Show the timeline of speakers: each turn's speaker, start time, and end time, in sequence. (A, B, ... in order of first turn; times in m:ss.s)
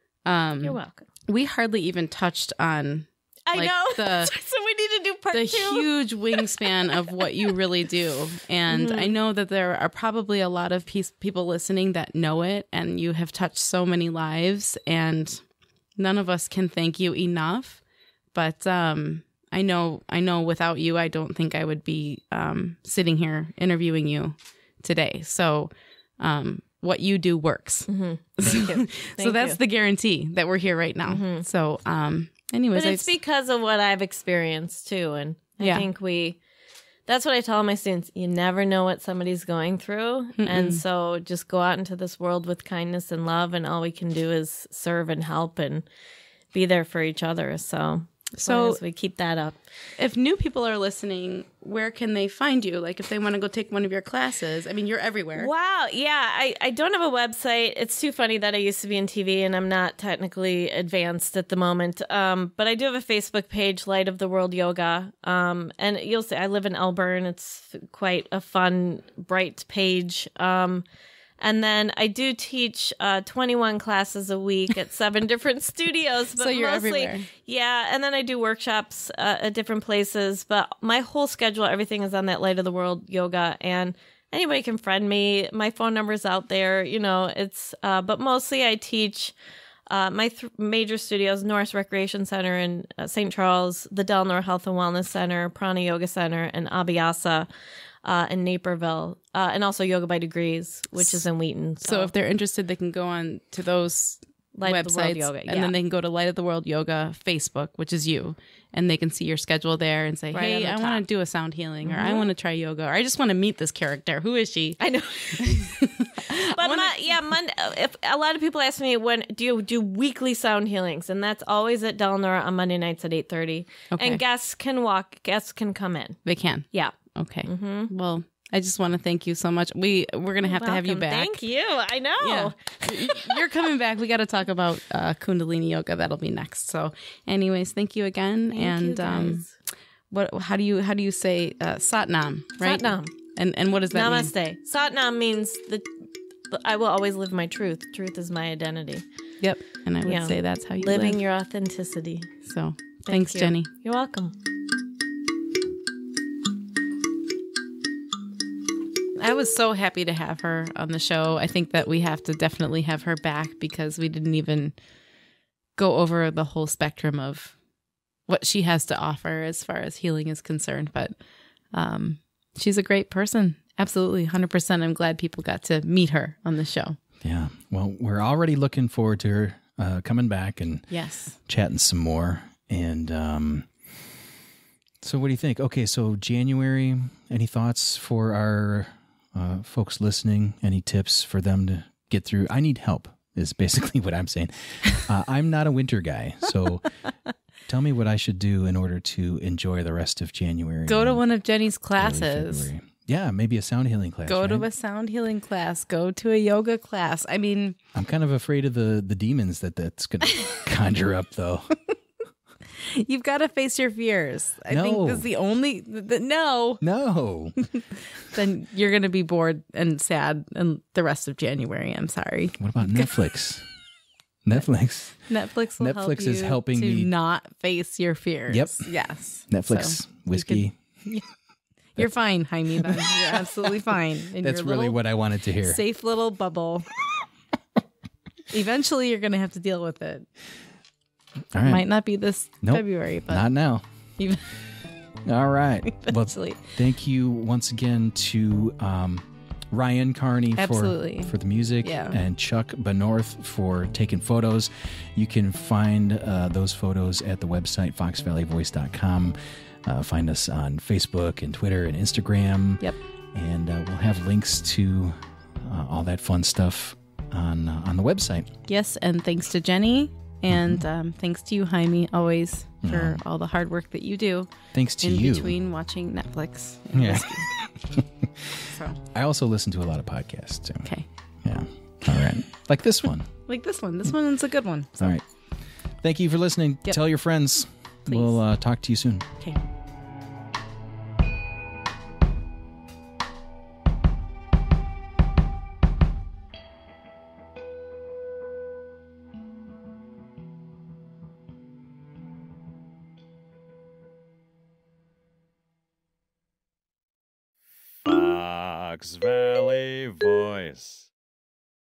0:00.3-0:04.3 A
0:00.6-0:01.1 B
0:03.5-0:07.6 B
0:05.3-0:15.4 A
0:08.7-0:09.1 B
0:16.0-0:17.8 A
0:18.3-0:33.1 A
0:27.9-0:29.6 B
0:31.1-0:31.5 B
0:32.7-0:36.4 B
0:35.6-0:35.8 A
0:37.1-0:45.8 B
0:40.4-0:40.8 A
0:46.5-0:49.6 B
0:48.4-0:48.8 A
0:50.0-0:55.5 A
0:55.4-1:10.9 B
1:11.4-1:29.3 B
1:16.4-1:17.3 A
1:29.9-1:37.5 B
1:38.0-1:42.1 B
1:41.8-1:54.8 A
1:44.6-1:45.7 B
1:50.3-1:51.0 B
1:51.8-1:52.3 B
1:54.8-2:06.2 B
1:55.4-1:57.2 A
2:03.9-2:04.2 A
2:06.2-2:11.4 A
2:07.5-2:07.9 B
2:10.4-2:13.4 B
2:12.2-2:19.5 A
2:18.5-2:19.5 B
2:20.1-2:24.3 A
2:22.6-2:23.1 B
2:23.9-2:25.9 B
2:26.5-2:29.0 B
2:29.4-2:31.2 A
2:30.0-2:32.3 B
2:32.5-2:33.7 A
2:33.0-2:34.4 B
2:39.2-2:44.8 A
2:45.8-2:47.6 A
2:48.3-2:51.1 A
2:51.7-2:57.0 A
2:57.2-3:03.7 C
3:00.9-3:01.4 A
3:05.0-3:17.0 C
3:17.7-3:21.2 C
3:20.9-3:22.7 A
3:22.0-3:24.7 C
3:24.3-3:27.8 A
3:27.9-3:31.8 C
3:32.8-3:36.8 A
3:34.7-3:35.3 C
3:36.8-3:37.6 C
3:37.6-3:43.1 A
3:42.6-3:43.7 C
3:44.4-3:47.1 C
3:45.3-3:51.3 A
3:48.5-3:48.9 C
3:49.5-3:50.8 C
3:52.0-3:55.0 A
3:52.8-3:53.8 C
3:54.4-3:55.8 C
3:55.6-3:56.9 A
3:58.5-4:00.3 A
4:01.5-4:01.9 C
4:01.6-4:03.4 A
4:02.6-4:03.8 C
4:04.2-4:04.4 A
4:05.2-4:28.5 C
4:05.9-4:06.7 A
4:10.6-4:12.2 A
4:28.7-4:34.5 A
4:30.5-4:30.8 C
4:32.8-4:33.2 C
4:34.7-4:35.6 C
4:35.0-4:37.5 A
4:36.9-4:40.9 C
4:38.7-4:39.0 A
4:41.4-4:43.3 C
4:43.5-4:45.2 A
4:45.0-4:45.2 C
4:46.0-4:49.3 C
4:48.1-4:48.4 A
5:08.0-5:11.1 D